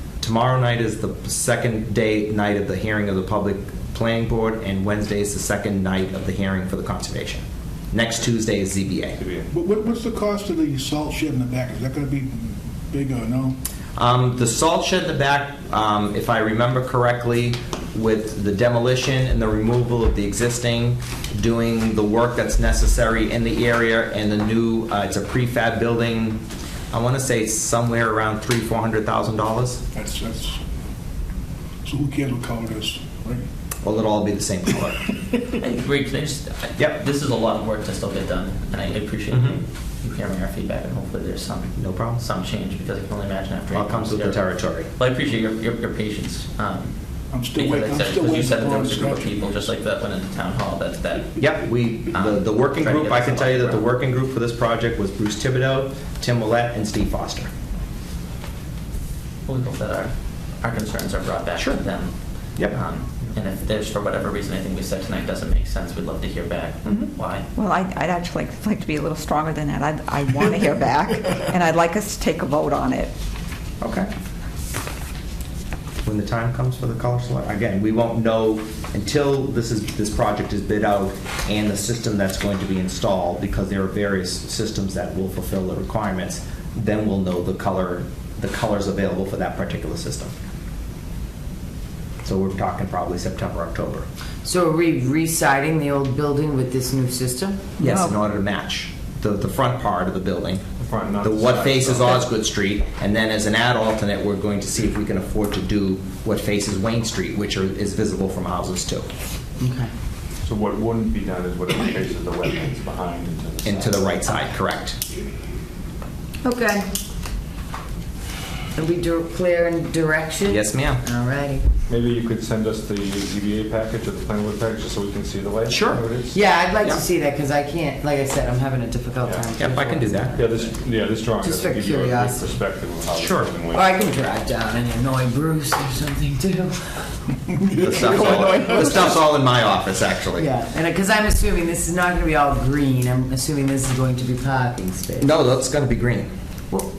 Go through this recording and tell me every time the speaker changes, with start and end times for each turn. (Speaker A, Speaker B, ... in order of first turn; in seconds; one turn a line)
Speaker A: 0.2-9.2
Speaker B: 9.2-9.6
Speaker C: 9.5-13.6
Speaker A: 14.0-26.4
Speaker A: 26.9-29.8
Speaker C: 29.9-30.6
Speaker C: 31.8-33.5
Speaker A: 33.8-35.0
Speaker D: 35.5-47.0
Speaker A: 41.8-42.2
Speaker A: 43.7-44.9
Speaker C: 47.3-49.6
Speaker D: 47.5-51.4
Speaker A: 51.4-57.5
Speaker D: 52.1-53.8
Speaker D: 59.5-67.5
Speaker A: 61.6-61.8
Speaker A: 66.9-67.1
Speaker E: 67.6-73.1
Speaker A: 73.8-74.1
Speaker A: 76.0-90.3
Speaker A: 92.2-94.0
Speaker F: 94.4-97.7
Speaker A: 97.8-100.6
Speaker E: 97.8-98.2
Speaker B: 100.8-102.2
Speaker A: 101.2-109.1
Speaker F: 109.6-109.9
Speaker B: 110.4-114.0
Speaker A: 113.6-115.0
Speaker F: 116.4-116.9
Speaker F: 118.8-121.7
Speaker A: 120.5-121.0
Speaker B: 121.9-126.4
Speaker A: 125.7-126.0
Speaker F: 126.3-130.8
Speaker B: 129.2-129.5
Speaker A: 129.6-130.4
Speaker B: 130.3-133.9
Speaker F: 131.4-132.5
Speaker A: 133.2-133.5
Speaker F: 133.7-138.8
Speaker A: 137.7-140.5
Speaker F: 140.3-145.3
Speaker A: 145.2-146.3